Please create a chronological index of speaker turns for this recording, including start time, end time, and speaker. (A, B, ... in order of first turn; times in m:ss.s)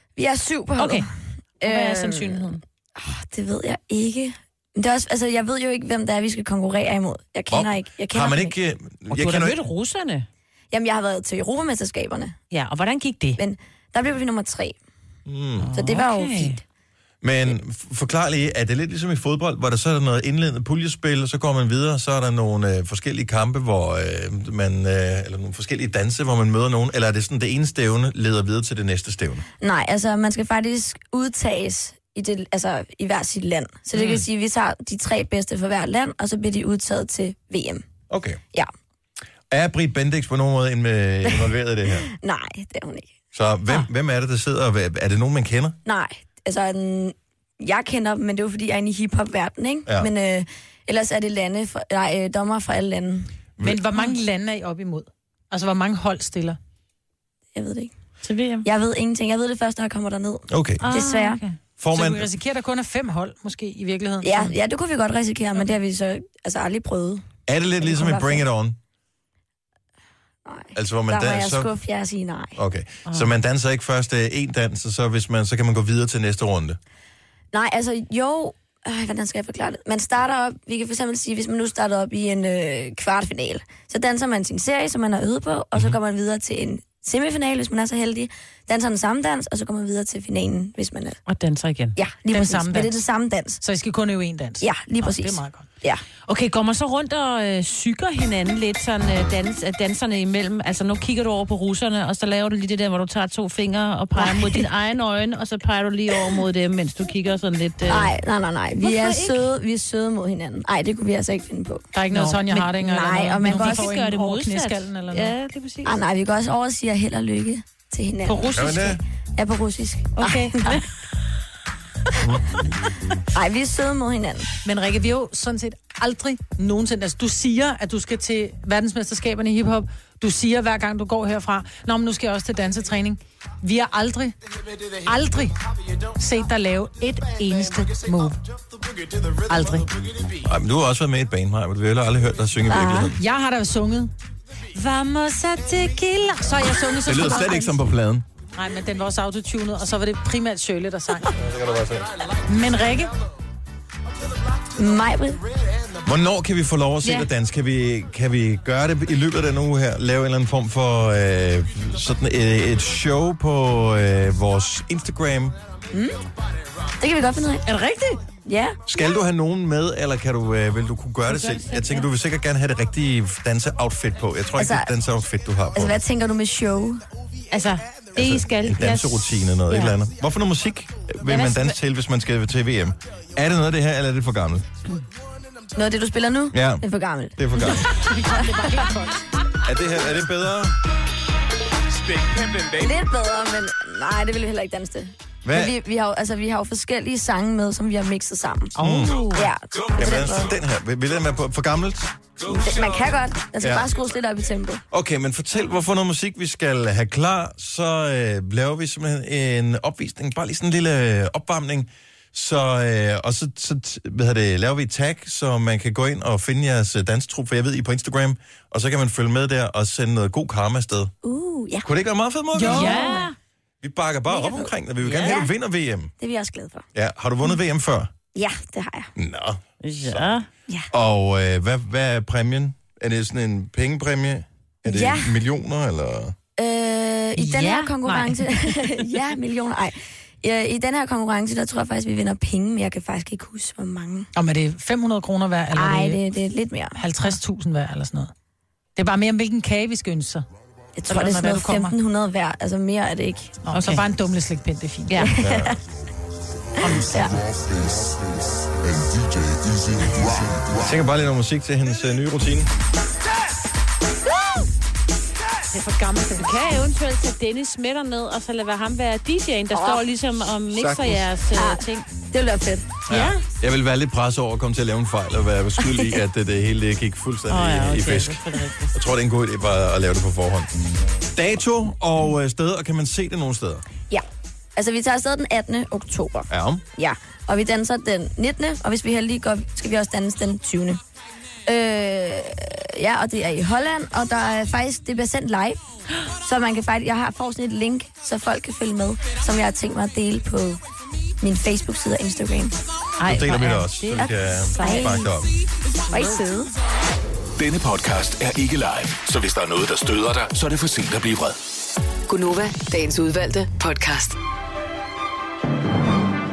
0:00.2-0:01.0 A
0:00.8-0:01.0 B
0:01.6-0:08.5 A
0:01.6-0:02.6 B
0:07.5-0:09.6 C
0:09.1-0:10.3 B
0:10.7-0:12.3 A
0:12.5-0:13.4 B
0:13.4-0:14.8 A
0:15.2-0:15.7 C
0:15.6-0:16.6 B
0:15.7-0:16.6 A
0:17.2-0:29.4 C
0:29.6-0:37.8 A
0:33.9-0:34.2 B
0:38.1-0:38.4 C
0:39.5-0:42.1 C
0:41.2-0:43.1 A
0:43.3-0:45.8 C
0:45.8-0:53.3 A
0:53.6-0:53.8 C
0:53.6-0:56.6 D
0:57.5-0:57.9 A
0:58.2-0:58.6 B
0:58.6-1:01.4 A
1:00.5-1:00.8 C
1:00.8-1:01.6 B
1:01.8-1:02.3 C
1:01.9-1:04.5 D
1:04.2-1:07.2 A
1:07.4-1:08.8 C
1:07.8-1:08.4 A
1:10.4-1:12.6 A
1:10.7-1:11.7 C
1:12.6-1:16.8 C
1:17.5-1:31.2 A
1:31.3-1:31.9 B
1:32.0-1:33.6 A
1:32.3-1:33.0 D
1:33.6-1:35.6 D
1:34.6-1:36.0 A
1:36.2-1:48.1 B
1:44.2-1:44.6 A
1:46.1-1:46.4 A
1:47.8-1:51.8 A
1:48.8-1:49.5 B
1:51.9-1:55.3 D
1:52.1-1:56.0 B
1:52.8-1:53.9 A
1:55.8-2:00.8 A
1:58.3-1:58.6 B
1:58.5-1:59.0 C
2:00.2-2:00.9 B
2:03.3-2:04.5 A
2:04.6-2:14.4 D
2:15.0-2:15.5 D
2:16.2-2:18.4 D
2:19.4-2:19.9 D
2:20.4-2:23.2 C
2:22.6-2:23.1 A
2:23.2-2:24.1 D
2:24.7-2:27.8 D
2:27.0-2:28.3 C
2:28.5-2:31.4 D
2:31.3-2:32.1 C
2:32.4-2:33.1 D
2:34.8-2:35.4 A
2:36.0-2:45.6 C
2:45.9-2:46.2 A
2:47.0-2:47.6 A
2:47.6-2:48.2 D
2:48.4-2:48.8 A
2:48.9-2:56.0 C
2:51.3-2:52.1 B
2:54.6-2:54.9 A
2:55.7-2:57.0 A
2:57.5-2:59.9 B
2:58.1-3:04.7 C
3:01.2-3:01.8 B
3:05.7-3:07.7 A
3:06.5-3:06.8 C
3:07.4-3:07.9 C
3:07.6-3:09.2 D
3:09.6-3:10.8 C
3:12.7-3:18.7 A
3:15.4-3:15.7 C
3:18.8-3:19.4 B
3:18.8-3:19.2 C
3:19.3-3:20.5 A
3:19.9-3:22.2 C
3:22.5-3:24.8 A
3:23.6-3:24.0 C
3:24.9-3:41.1 C
3:41.2-3:41.9 A
3:41.8-3:43.2 C
3:42.5-3:43.3 D
3:42.6-3:43.4 B
3:43.8-3:46.1 C
3:44.3-3:45.5 A
3:45.0-3:45.4 B
3:46.2-3:46.8 A
3:46.9-3:48.2 C
3:48.3-3:49.1 A
3:49.2-3:50.4 C
3:49.8-3:50.5 B
3:50.9-3:56.3 C
3:54.8-3:55.4 A
3:56.6-4:04.3 A
3:57.4-3:59.0 B
4:04.3-4:06.2 D
4:05.7-4:07.0 A
4:07.0-4:08.3 D
4:09.0-4:10.4 D
4:11.0-4:13.6 A
4:11.1-4:11.9 D
4:13.6-4:15.2 D
4:13.7-4:14.0 B
4:15.2-4:15.8 A
4:15.4-4:15.8 C
4:16.8-4:17.3 D
4:16.8-4:17.4 A
4:20.4-4:22.7 C
4:25.7-4:26.5 D
4:26.4-4:32.1 B
4:29.7-4:30.0 A
4:30.7-4:31.3 C
4:31.5-4:32.9 A
4:33.1-4:38.4 C
4:33.1-4:33.4 B
4:35.8-4:36.2 A
4:37.5-4:38.9 B
4:38.9-4:40.7 C
4:41.3-4:43.8 C
4:44.8-4:51.0 A
4:46.5-4:46.8 C
4:51.7-4:55.8 A
4:56.4-5:00.8 A
5:01.4-5:02.8 A
5:03.2-5:05.3 B
5:03.3-5:05.5 C
5:04.8-5:05.3 A
5:06.1-5:06.7 A
5:07.6-5:11.6 E
5:12.3-5:14.3 F